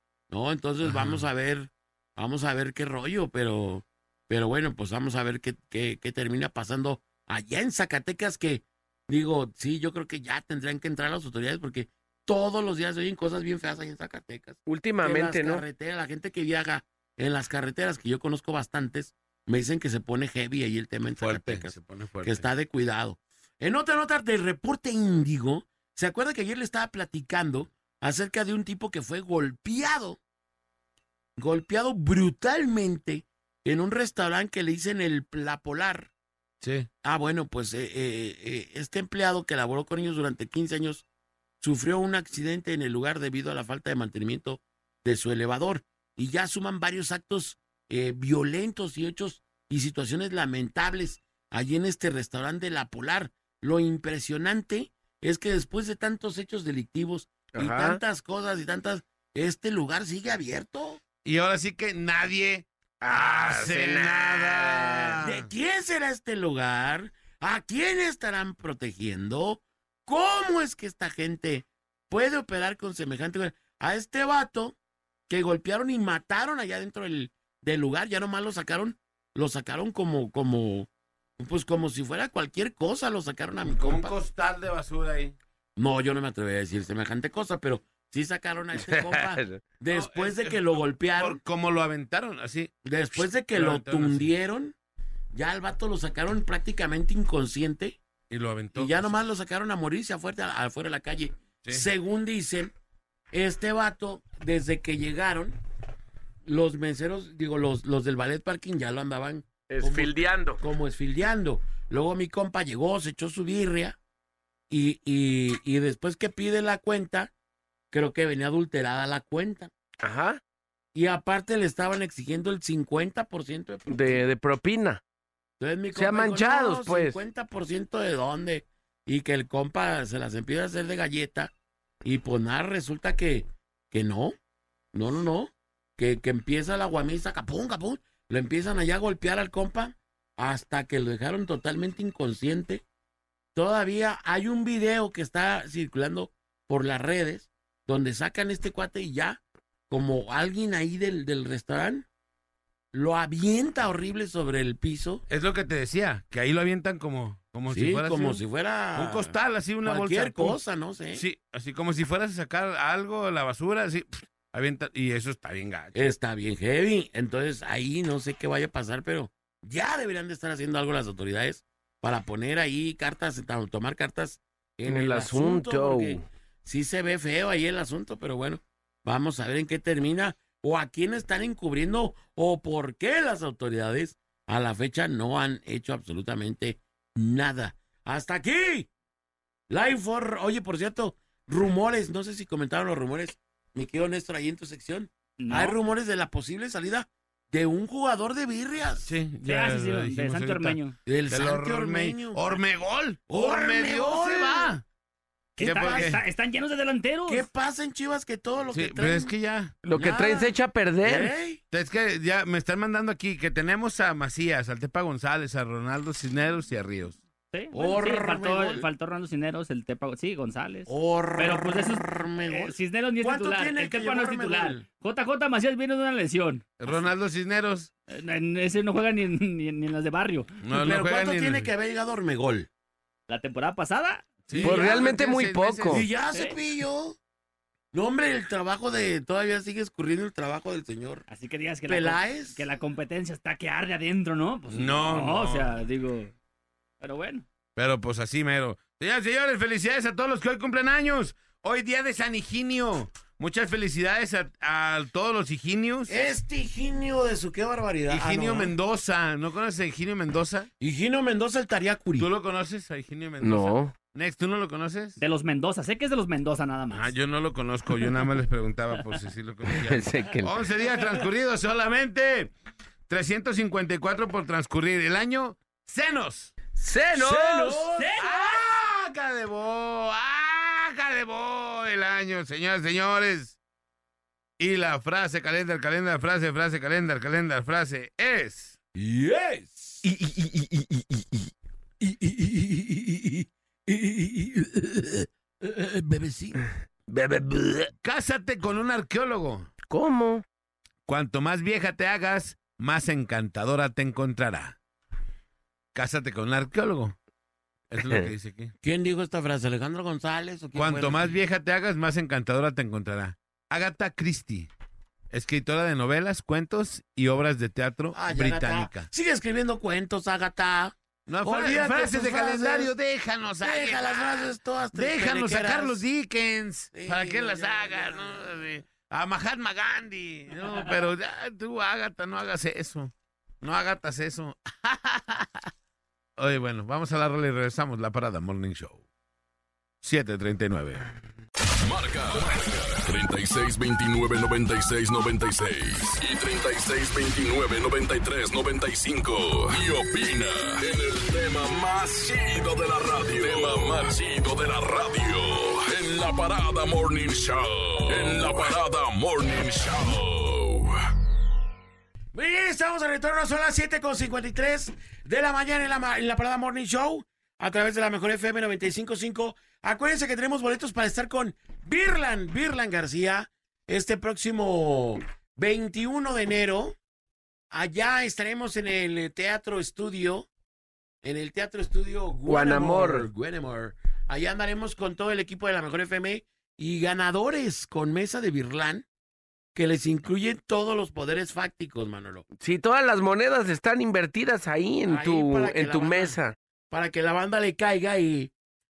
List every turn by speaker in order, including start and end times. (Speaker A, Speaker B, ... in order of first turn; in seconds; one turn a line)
Speaker A: 0.3-30.2
Speaker B: 0.8-1.2
Speaker C: 14.7-15.6
Speaker B: 21.2-22.4
Speaker A: 31.4-36.1
Speaker B: 36.6-36.9
Speaker A: 37.0-41.0
Speaker A: 41.6-61.0
Speaker C: 57.5-58.0
Speaker B: 61.2-65.5
Speaker C: 63.0-65.2
Speaker A: 65.2-74.8
Speaker A: 75.3-80.9
Speaker A: 81.4-84.2
Speaker B: 83.6-85.3
Speaker A: 85.8-91.4
Speaker C: 89.2-89.6
Speaker B: 89.9-92.7
Speaker A: 92.8-94.7
Speaker B: 93.5-94.3
Speaker A: 95.3-98.0
Speaker B: 98.3-99.1
Speaker A: 98.7-102.7
Speaker A: 103.3-105.6
Speaker A: 106.4-114.0
Speaker C: 109.7-110.6
Speaker A: 114.7-117.3
Speaker A: 117.9-119.7
Speaker C: 120.0-120.4
Speaker A: 120.9-124.2
Speaker C: 123.9-125.0
Speaker A: 125.6-131.5
Speaker C: 125.9-127.2
Speaker A: 132.0-134.3
Speaker A: 134.9-142.8
Speaker A: 143.5-152.1
Speaker A: 152.9-155.2
Speaker B: 155.3-158.4
Speaker A: 157.7-161.2
Speaker B: 158.9-160.6
Speaker B: 161.1-165.9
Speaker A: 165.9-188.9
Speaker C: 174.8-176.2
Speaker A: 189.7-199.1
Speaker D: 195.4-195.8
Speaker B: 199.0-200.8
Speaker D: 199.4-200.9
Speaker A: 201.1-202.6
Speaker B: 201.3-204.8
Speaker A: 203.3-204.8
Speaker D: 205.6-207.5
Speaker A: 205.6-206.2
Speaker B: 205.6-206.2
Speaker A: 207.3-209.3
Speaker B: 208.7-209.7
Speaker C: 209.8-211.3
Speaker A: 209.9-211.6
Speaker B: 211.7-217.2
Speaker D: 217.5-226.6
Speaker A: 217.7-218.8
Speaker A: 220.9-224.8
Speaker B: 226.8-227.9
Speaker D: 228.1-230.5
Speaker B: 230.6-231.7
Speaker A: 230.7-232.7
Speaker D: 233.3-234.3
Speaker B: 234.5-236.0
Speaker A: 234.5-235.0
Speaker C: 234.6-236.1
Speaker A: 235.9-237.2
Speaker A: 237.9-241.2
Speaker D: 241.3-246.3
Speaker A: 241.9-242.6
Speaker B: 244.7-245.7
Speaker D: 247.0-247.4
Speaker B: 247.8-256.1
Speaker A: 256.1-258.7
Speaker B: 258.1-260.7
Speaker A: 260.8-262.3
Speaker B: 262.2-265.2
Speaker C: 263.4-263.9
Speaker D: 265.2-267.1
Speaker B: 266.9-272.5
Speaker C: 269.7-270.5
Speaker B: 273.1-276.5
Speaker C: 276.8-277.8
Speaker A: 277.1-278.1
Speaker B: 277.6-283.6
Speaker D: 278.0-278.6
Speaker B: 284.6-288.7
Speaker A: 288.9-290.0
Speaker C: 290.0-291.3
Speaker A: 292.0-296.6
Speaker C: 297.1-297.9
Speaker B: 298.0-299.7
Speaker C: 299.9-300.4
Speaker B: 301.1-304.8
Speaker B: 305.9-307.1
Speaker B: 307.9-308.7
Speaker A: 308.8-311.4
Speaker B: 310.8-314.7
Speaker B: 315.3-319.1
Speaker A: 318.1-322.9
Speaker B: 321.3-335.7
Speaker A: 323.6-326.0
Speaker A: 326.9-328.5
Speaker B: 336.4-339.0
Speaker B: 340.0-341.1
Speaker E: 341.8-360.9
Speaker A: 362.3-376.9
Speaker A: 377.7-380.5
Speaker A: 381.2-389.0
Speaker C: 382.5-383.3
Speaker A: 389.7-392.4
Speaker C: 392.6-396.5
Speaker A: 395.1-396.4
Speaker A: 396.9-398.5